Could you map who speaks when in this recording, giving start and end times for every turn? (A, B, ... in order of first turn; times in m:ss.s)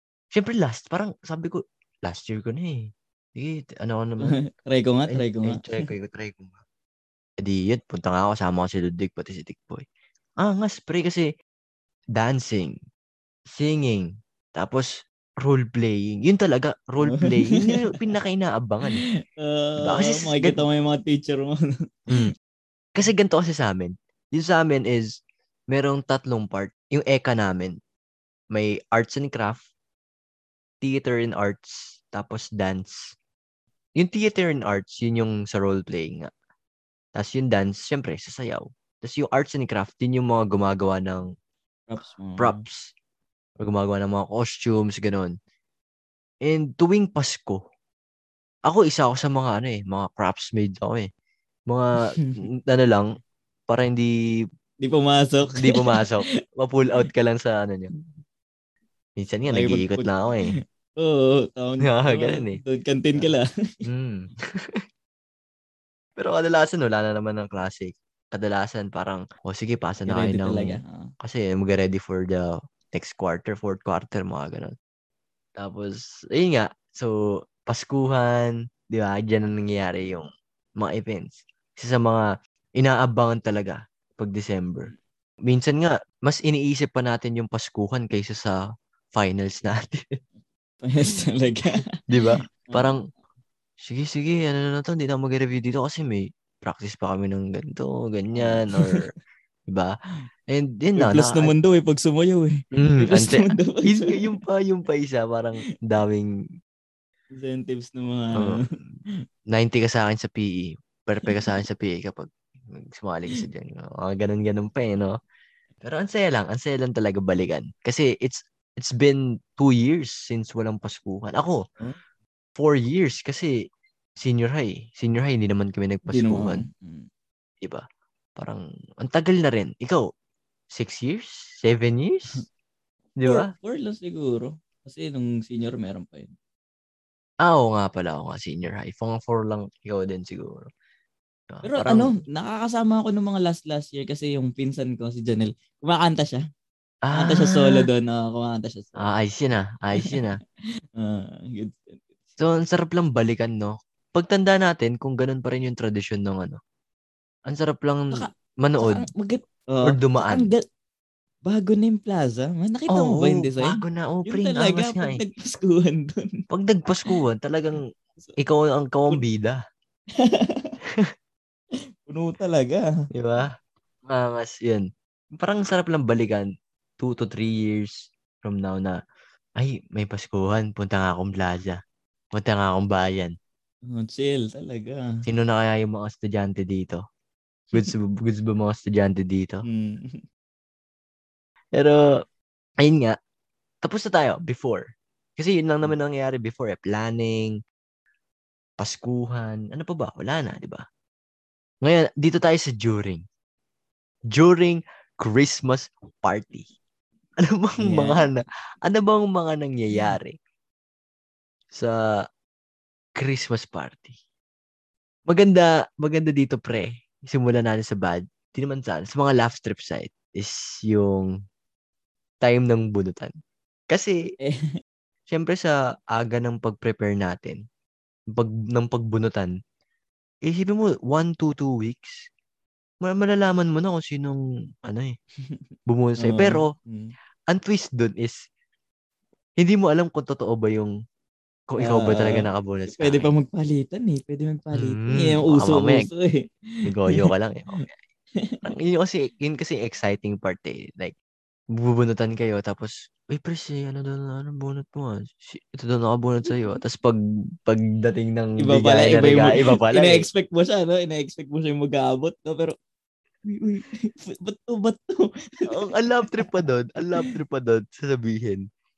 0:00.3-0:04.4 A
0:04.2-0:05.9 B
0:05.1-0:06.6 A
0:07.4-0:09.8 A
0:10.4-0:11.3 A
0:12.1-0:12.8 A
0:13.5-0:19.0 A
0:17.0-0:18.1 B
0:18.8-0:21.6 B
0:19.8-0:20.6 A
0:23.0-0:25.1 A
0:25.7-0:27.7 A
0:28.5-0:29.6 A
0:30.8-0:33.1 A
0:34.0-0:36.3 A
0:37.1-0:41.2 A
0:41.9-0:42.6 B
0:42.4-0:42.9 A
0:43.6-0:45.3 A
0:46.4-0:47.6 A
0:48.7-0:51.1 A
0:51.7-0:53.0 A
0:53.7-0:54.1 A
0:54.8-0:56.1 B
0:55.5-0:57.9 A
0:59.2-1:00.5 A
0:59.5-1:03.4 B
1:01.8-1:02.6 A
1:03.8-1:04.8 A
1:06.2-1:14.7 A
1:10.1-1:11.1 B
1:15.6-1:20.3 A
1:20.8-1:22.2 A
1:22.8-1:24.9 A
1:25.4-1:28.6 A
1:29.1-1:30.1 A
1:30.8-1:31.8 B
1:32.1-1:33.0 A
1:32.6-1:33.0 B
1:33.8-1:39.1 A
1:38.3-1:39.0 B
1:39.7-1:39.9 A
1:40.5-1:41.5 A
1:41.0-1:44.4 B
1:42.8-1:46.3 A
1:47.4-1:48.6 B
1:48.4-1:48.6 A
1:49.5-1:55.2 A
1:51.2-1:51.6 B
1:55.8-2:01.6 A
2:02.6-2:03.5 A
2:04.2-2:06.6 A
2:06.1-2:07.1 B
2:08.4-2:10.0 A
2:10.7-2:12.4 A
2:13.2-2:13.5 A
2:13.2-2:16.3 B
2:17.4-2:20.7 A
2:21.5-2:22.1 A
2:21.6-2:26.4 B
2:27.0-2:27.8 A
2:27.2-2:29.1 B
2:29.0-2:30.4 A
2:31.0-2:32.4 B
2:32.4-2:36.6 A
2:37.5-2:38.1 A
2:38.1-2:40.6 B
2:38.6-2:39.1 A
2:39.8-2:40.5 A
2:41.4-2:46.4 B
2:42.9-2:45.2 A
2:46.5-2:47.8 A
2:48.4-2:49.6 A
2:50.2-2:50.7 B
2:52.1-2:52.8 B
2:53.1-2:53.5 A
2:54.1-2:56.4 A
2:57.0-2:59.0 A
2:59.6-3:01.8 A
3:02.3-3:03.3 A
3:03.9-3:05.0 B
3:05.3-3:07.0 A
3:07.7-3:09.6 A
3:09.6-3:10.2 B
3:11.8-3:12.0 A
3:12.8-3:13.1 A
3:13.8-3:14.8 A
3:15.4-3:17.6 A
3:18.8-3:20.8 A
3:21.8-3:23.2 A
3:24.3-3:26.7 A
3:27.4-3:30.3 A
3:27.8-3:28.3 B
3:33.2-3:34.1 A
3:35.3-3:41.3 A
3:42.4-3:43.3 A
3:43.9-3:44.2 A
3:45.3-3:47.6 A
3:48.3-3:49.5 A
3:50.4-3:52.2 A
3:53.0-3:55.1 A
3:55.9-3:56.7 A
3:56.2-3:57.1 B
3:57.5-3:58.4 A
3:59.6-4:00.9 A
4:01.7-4:03.3 A
4:01.8-4:07.8 B
4:04.7-4:06.1 A
4:06.8-4:08.0 A
4:08.6-4:11.2 A
4:11.7-4:20.2 A
4:16.5-4:16.8 B
4:18.6-4:22.7 B
4:23.4-4:26.5 B
4:25.7-4:28.6 A